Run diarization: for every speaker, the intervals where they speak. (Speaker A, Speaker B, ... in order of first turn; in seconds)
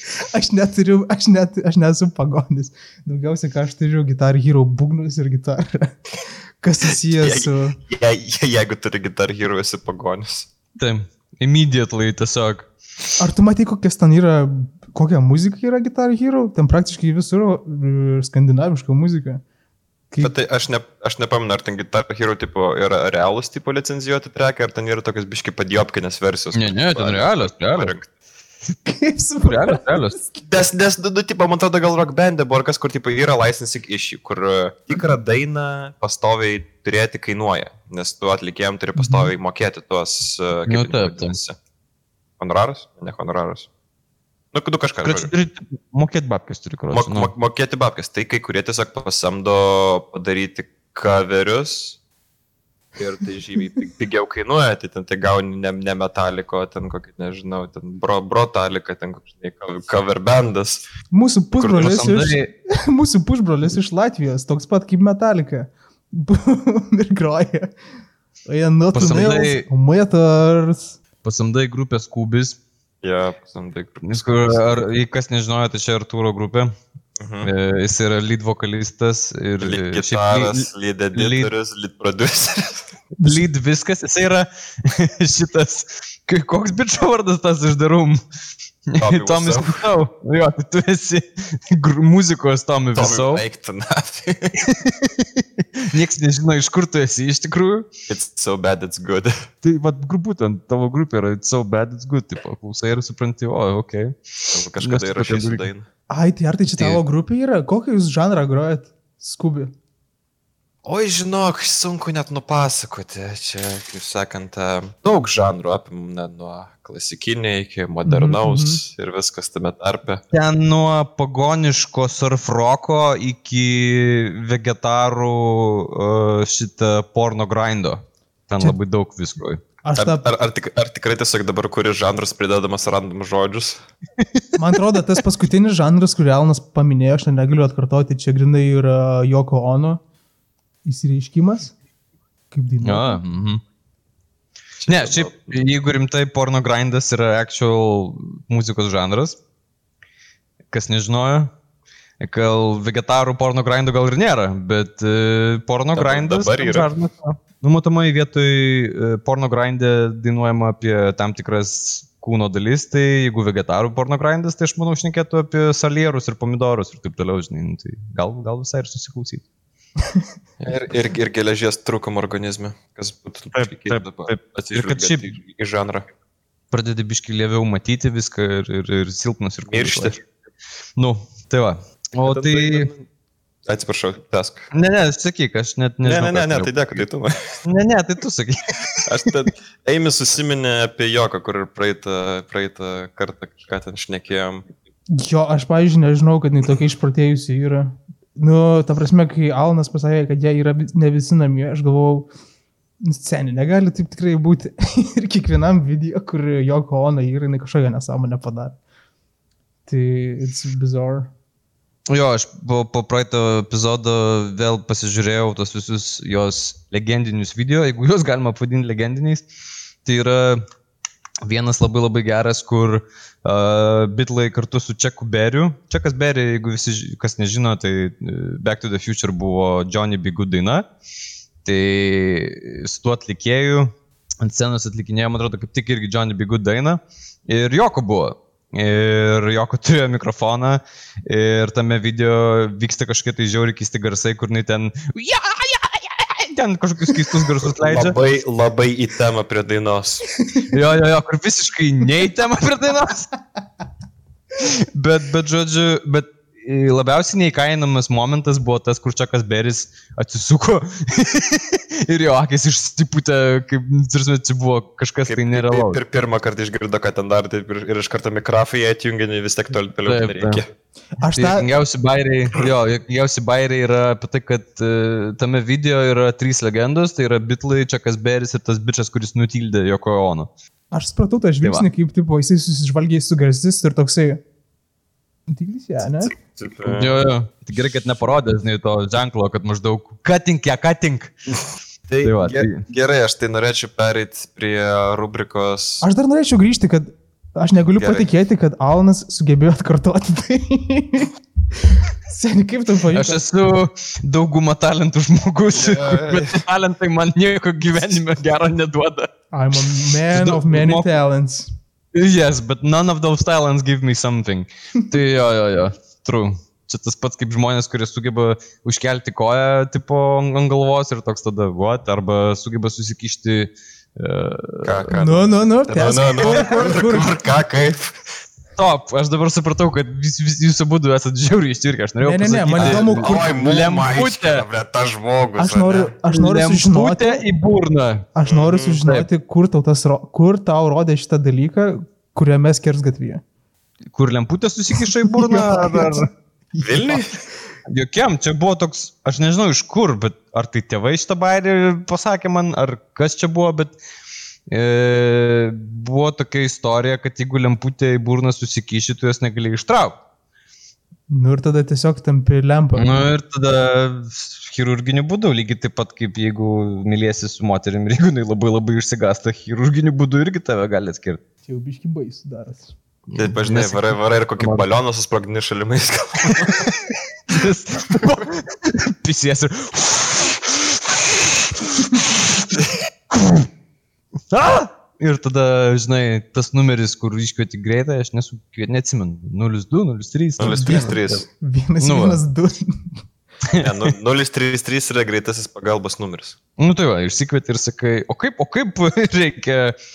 Speaker A: 0.2-6.0, 6.6-7.8, 13.2-19.4, 28.9-30.4, 39.0-39.3, 61.1-67.7, 68.5-71.0, 83.2-83.5, 106.1-109.7, 118.0-118.8, 129.8-130.3, 134.6-140.0, 140.8-141.7, 142.5-143.2, 195.1-202.3, 203.0-208.8, 209.9-211.3, 271.2-271.7, 280.9-284.4, 285.5-286.4, 296.0-303.4, 309.5-311.7, 325.1-327.4, 332.2-333.6, 335.6-337.4, 338.4-343.4, 345.0-347.2, 361.3-363.3, 371.7-372.9, 390.6-393.1
Speaker B: 7.1-10.5, 20.2-28.1, 30.5-41.6, 42.4-43.7, 44.5-45.3, 46.9-52.0, 53.0-60.8, 73.0-74.8, 77.2-77.5, 79.6-82.9, 89.0-89.9, 93.0-94.6, 98.1-99.3, 104.5-105.9, 110.8-120.2, 130.0-133.8, 144.8-145.6, 155.9-156.9, 170.6-176.1, 179.7-180.2, 182.2-183.1, 183.7-184.7, 186.0-187.6, 189.1-194.7, 247.7-250.3, 265.3-270.7, 286.3-287.2, 292.1-296.0, 298.0-298.3, 305.7-306.6, 324.8-328.2, 332.8-336.1, 338.5-339.0, 346.8-347.3, 373.4-376.9, 390.6-391.4, 393.8-396.6
Speaker C: 10.8-12.7, 26.5-27.9, 29.4-30.1, 40.7-41.4, 45.0-47.3, 61.6-62.5, 68.9-69.7, 71.2-72.6, 74.0-76.7, 77.4-81.5, 83.2-88.2, 88.9-93.4, 94.6-97.9, 99.6-105.7, 120.3-129.6, 142.8-143.6, 144.9-149.4, 150.7-151.5, 152.2-169.4, 173.5-175.3, 176.7-180.2, 181.0-182.9, 184.7-186.7, 187.7-189.0, 212.1-219.4, 220.1-220.6, 221.4-230.8, 231.6-248.2, 250.7-253.3, 254.6-266.0, 270.1-270.6, 271.4-280.5, 286.9-291.3, 292.2-292.8, 303.1-309.3, 310.3-311.1, 312.1-325.1, 328.8-334.6, 336.3-338.3, 344.1-346.3, 347.9-354.0, 354.7-360.2, 363.0-371.4, 373.3-374.9, 376.8-382.7, 383.3-383.7, 384.5-391.2, 392.0-392.4, 393.7-394.0, 396.8-400.0